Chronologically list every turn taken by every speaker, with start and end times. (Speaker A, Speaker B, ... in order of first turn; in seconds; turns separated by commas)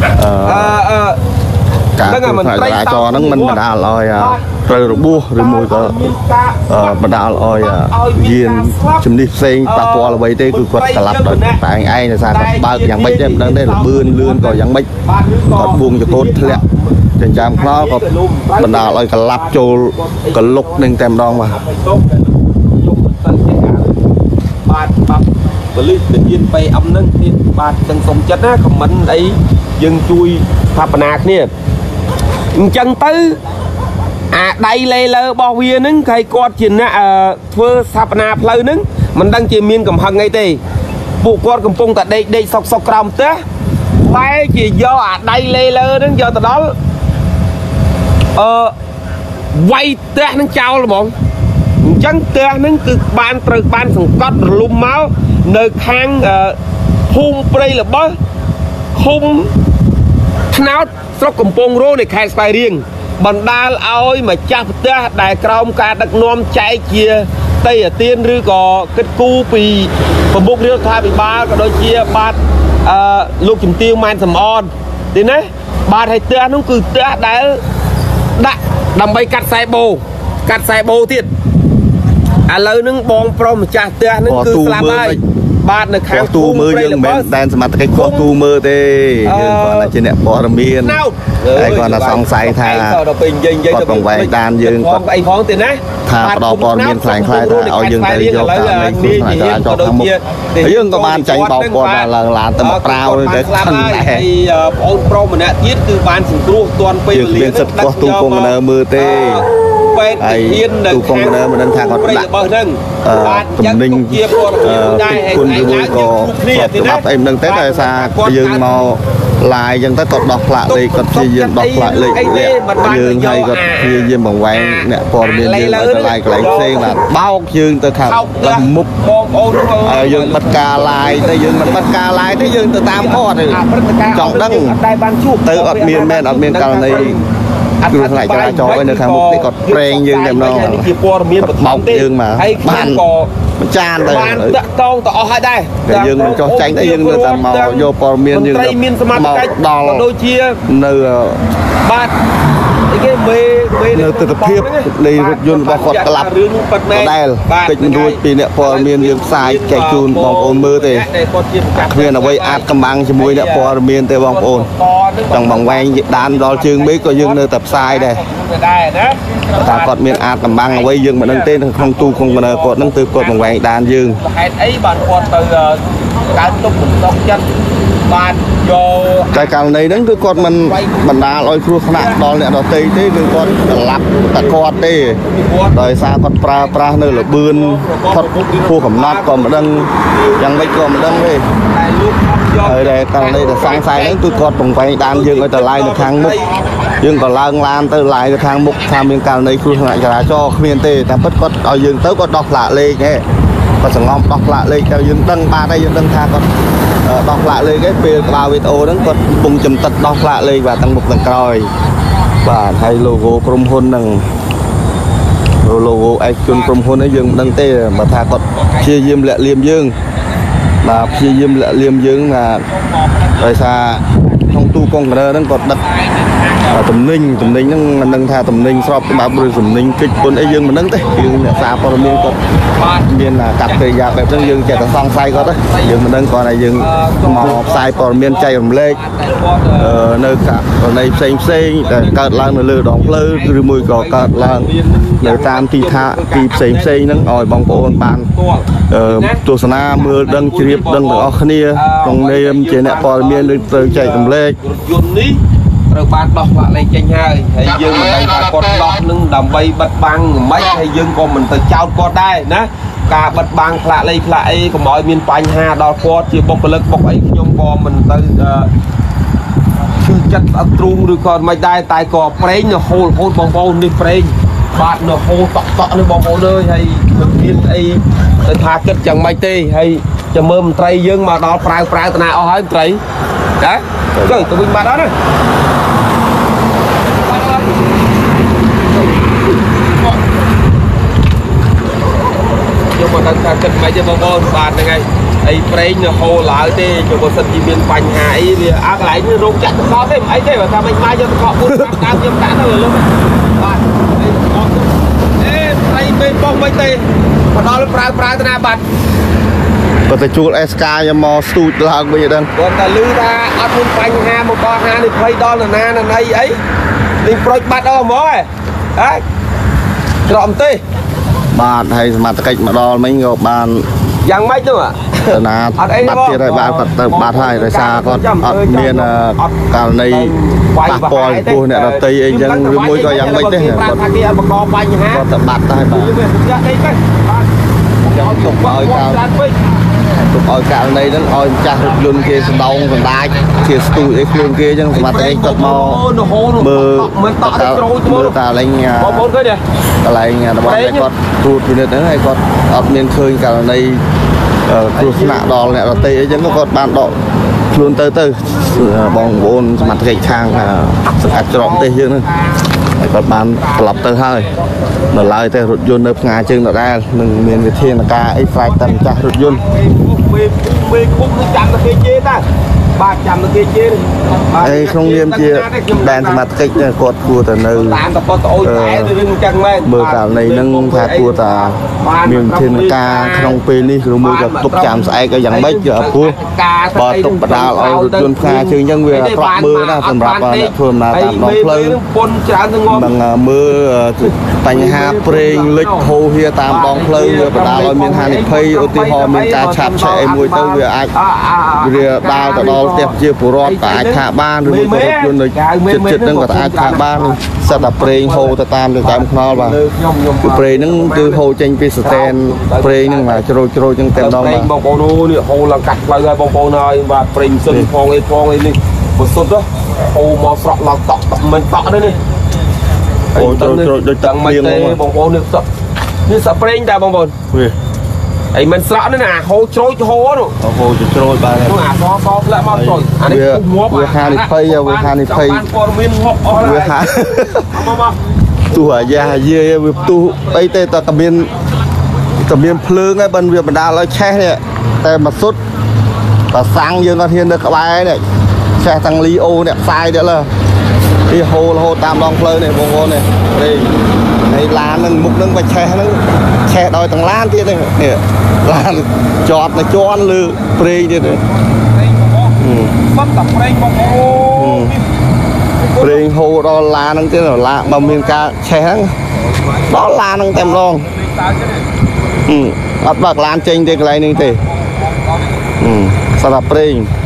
Speaker A: 0.2-0.8, Speaker B: 0.4-1.2, Speaker A: 1.9-6.1, Speaker B: 2.0-3.6, Speaker B: 4.2-9.0, Speaker A: 6.7-14.9, Speaker B: 9.6-11.6, Speaker B: 12.3-24.1, Speaker A: 15.5-16.6, Speaker A: 17.2-18.0, Speaker A: 18.6-21.6, Speaker B: 24.6-31.5, Speaker B: 32.5-33.4, Speaker B: 34.3-40.6, Speaker B: 41.2-43.4, Speaker B: 44.0-46.7, Speaker B: 48.3-48.7, Speaker B: 49.5-51.1, Speaker B: 51.8-56.6, Speaker B: 57.1-58.2, Speaker B: 58.9-59.5, Speaker B: 60.5-77.6, Speaker B: 78.3-81.3, Speaker B: 82.5-87.3, Speaker A: 84.3-85.2, Speaker A: 86.1-91.0, Speaker B: 87.9-88.3, Speaker B: 89.2-89.9, Speaker B: 90.8-118.9, Speaker A: 91.5-93.0, Speaker A: 93.7-95.0, Speaker A: 96.0-104.3, Speaker A: 107.1-109.4, Speaker A: 110.2-112.3, Speaker A: 113.0-128.9, Speaker B: 120.7-127.0, Speaker B: 128.0-131.9, Speaker A: 129.8-133.6, Speaker B: 132.9-137.3, Speaker A: 134.1-134.8, Speaker A: 135.4-137.2, Speaker B: 137.8-143.3, Speaker A: 137.9-143.0, Speaker A: 143.6-144.6, Speaker B: 144.0-150.6, Speaker A: 145.8-150.1, Speaker A: 150.7-151.4, Speaker B: 151.8-152.1, Speaker B: 152.9-173.6, Speaker A: 153.9-156.3, Speaker A: 156.9-161.1, Speaker A: 161.7-164.7, Speaker A: 165.3-168.2, Speaker A: 169.5-174.2, Speaker B: 174.1-177.5, Speaker B: 178.1-182.2, Speaker A: 179.3-185.2, Speaker B: 184.3-185.9, Speaker A: 185.7-189.9, Speaker B: 186.4-194.5, Speaker A: 190.4-191.4, Speaker A: 192.6-196.4, Speaker B: 195.1-196.9, Speaker A: 197.0-203.2, Speaker A: 203.8-206.5, Speaker A: 207.0-211.7, Speaker B: 208.1-209.3, Speaker A: 212.4-214.2, Speaker A: 215.6-219.9, Speaker B: 216.5-219.3, Speaker A: 220.8-222.6, Speaker B: 220.8-221.7, Speaker B: 222.6-224.8, Speaker A: 223.4-225.8, Speaker B: 225.4-233.1, Speaker A: 226.7-232.4, Speaker A: 233.1-239.0, Speaker B: 233.6-236.0, Speaker B: 236.8-240.1, Speaker A: 239.8-248.3, Speaker B: 241.1-268.7, Speaker A: 248.9-254.6, Speaker B: 270.0-283.0, Speaker B: 283.6-285.1, Speaker A: 284.1-284.5, Speaker B: 287.2-287.8, Speaker B: 289.7-290.2, Speaker B: 292.9-308.8, Speaker A: 301.7-302.2, Speaker A: 310.1-312.5, Speaker B: 312.5-316.6, Speaker B: 317.2-319.2, Speaker B: 320.2-320.8, Speaker A: 321.5-323.9, Speaker B: 324.2-329.6, Speaker A: 325.3-330.3, Speaker B: 330.1-335.2, Speaker A: 330.9-334.0, Speaker A: 335.1-336.1, Speaker B: 335.9-337.5, Speaker B: 338.0-339.6, Speaker A: 338.1-339.2, Speaker A: 340.1-346.0, Speaker B: 344.9-348.4, Speaker A: 346.6-349.3, Speaker B: 349.0-349.6, Speaker A: 350.0-354.0, Speaker B: 350.6-351.1, Speaker A: 354.7-357.1, Speaker B: 354.9-356.8, Speaker A: 357.7-362.2, Speaker B: 358.8-362.8, Speaker A: 363.0-364.5, Speaker B: 363.6-364.6, Speaker A: 365.1-369.6, Speaker B: 368.5-372.4, Speaker B: 372.9-376.5, Speaker A: 374.6-378.0, Speaker B: 377.7-383.6, Speaker A: 378.6-379.1, Speaker A: 379.8-386.4, Speaker B: 384.2-393.1, Speaker A: 386.9-392.0, Speaker A: 392.9-401.1, Speaker B: 394.2-396.1, Speaker B: 396.6-411.4, Speaker A: 401.8-409.8, Speaker A: 410.4-414.7, Speaker B: 412.0-413.4, Speaker B: 414.1-422.2, Speaker B: 423.3-425.6, Speaker A: 423.3-425.0, Speaker B: 426.3-427.3, Speaker B: 428.5-430.5, Speaker A: 430.6-431.8, Speaker B: 431.6-437.0, Speaker A: 432.7-435.6, Speaker A: 436.5-437.7, Speaker B: 437.6-438.2, Speaker B: 438.7-441.0, Speaker A: 438.7-441.5, Speaker A: 442.3-445.6, Speaker A: 446.5-448.2, Speaker A: 448.8-450.5, Speaker A: 451.3-453.9, Speaker A: 454.5-461.4, Speaker B: 461.4-465.1, Speaker A: 462.6-462.9, Speaker A: 464.5-464.9, Speaker B: 465.8-466.4, Speaker A: 466.0-469.1, Speaker B: 467.8-468.5, Speaker B: 469.4-471.9, Speaker A: 469.9-471.1, Speaker A: 472.4-474.6, Speaker B: 473.5-475.8, Speaker A: 475.8-477.1